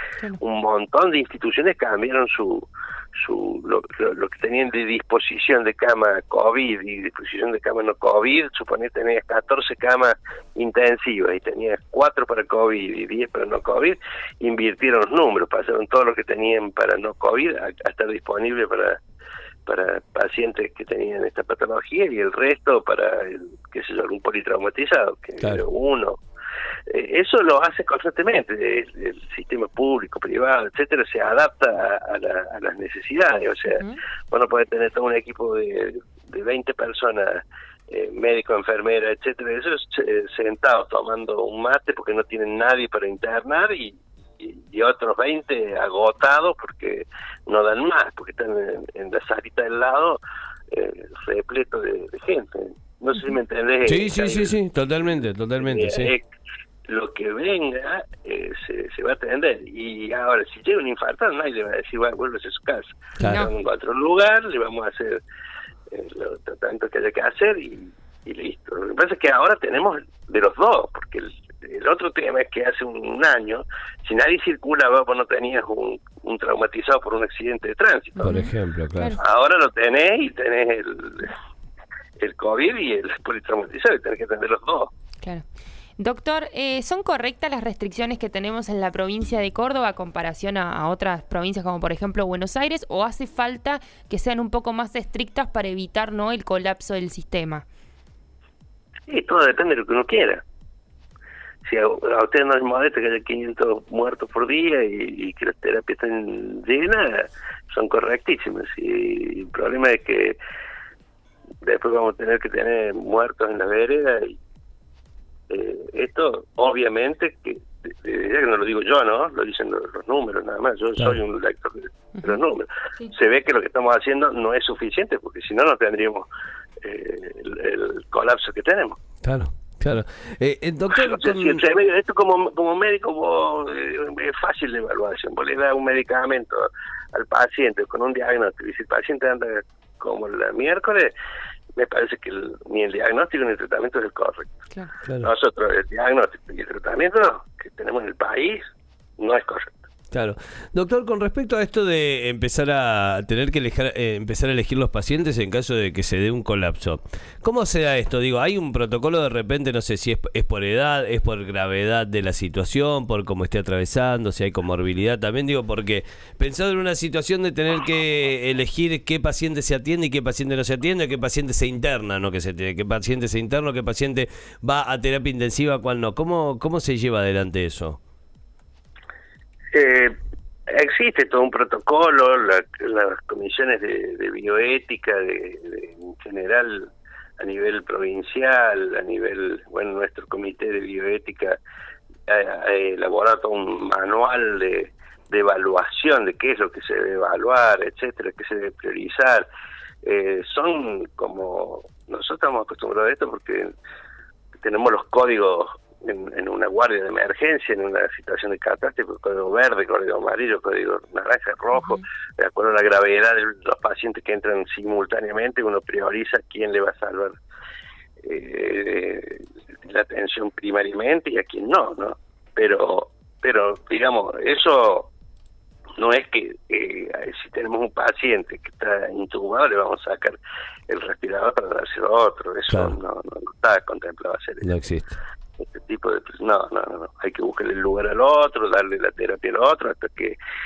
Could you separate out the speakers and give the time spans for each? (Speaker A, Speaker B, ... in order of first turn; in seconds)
Speaker A: 0.4-19.0, 19.7-26.2, 26.9-56.3, 56.9-65.2, 65.9-78.4, 79.2-81.3, 82.2-84.9, 99.1-100.4, 101.7-110.4, 111.6-114.4, 115.5-126.3, 126.8-129.0, 130.9-141.1, 141.8-144.6, 145.2-148.6, 149.2-149.8, 179.7-191.6, 192.3-199.5, 200.0-203.7, 204.6-217.4, 218.2-225.1, 226.0-234.7, 235.6-240.4
Speaker B: 33.7-34.0, 63.2-63.5, 78.2-79.2, 86.0-97.7, 211.7-212.0
Speaker C: 53.8-56.1, 63.2-63.5, 78.2-79.2, 129.2-131.6, 150.1-178.0, 232.7-233.0, 234.6-235.2